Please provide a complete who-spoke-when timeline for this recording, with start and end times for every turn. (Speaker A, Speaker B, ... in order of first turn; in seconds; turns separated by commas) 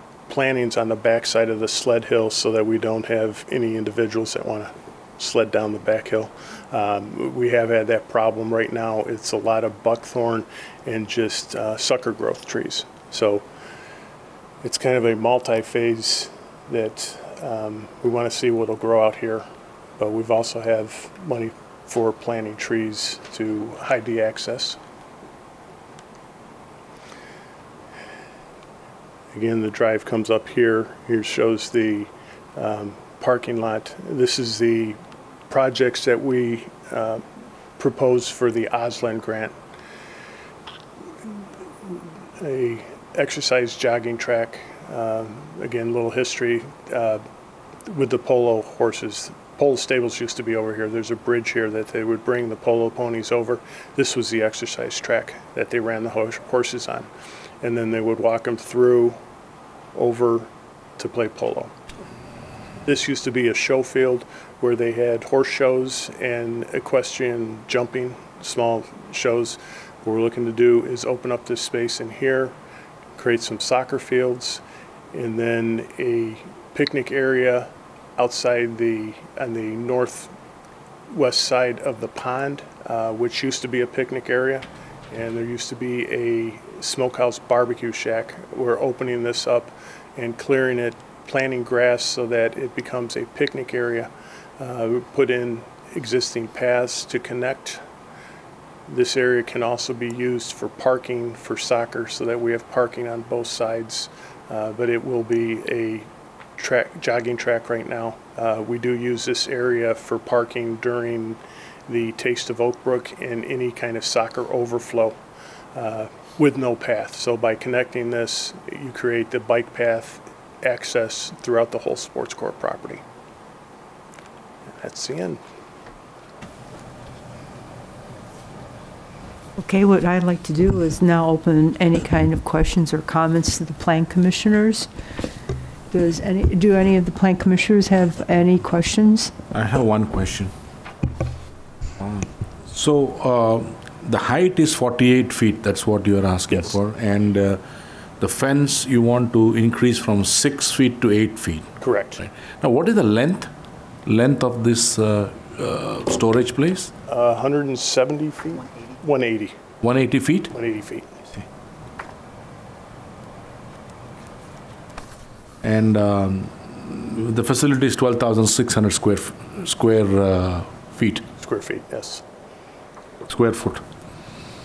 Speaker A: 0.3-13.4, Speaker A: 14.6-19.4, Speaker A: 20.0-24.8, Speaker A: 29.3-35.0, Speaker A: 35.5-37.2, Speaker A: 37.8-39.5, Speaker A: 42.4-47.2, Speaker A: 47.9-57.1, Speaker A: 57.6-59.2, Speaker A: 60.0-61.7, Speaker A: 62.9-72.5, Speaker A: 73.2-74.6, Speaker A: 75.1-80.3, Speaker A: 81.1-97.8, Speaker A: 98.9-106.1, Speaker A: 106.6-115.2, Speaker A: 115.8-123.0, Speaker A: 124.8-125.4, Speaker B: 129.6-134.9, Speaker B: 135.9-139.3, Speaker C: 139.5-140.5, Speaker C: 142.0-147.6, Speaker C: 148.2-153.5, Speaker A: 151.8-152.2, Speaker C: 154.1-156.9, Speaker A: 157.1-159.6, Speaker C: 159.8-160.5, Speaker A: 160.5-161.1, Speaker C: 165.6-171.2, Speaker A: 171.4-172.2, Speaker C: 173.3-173.8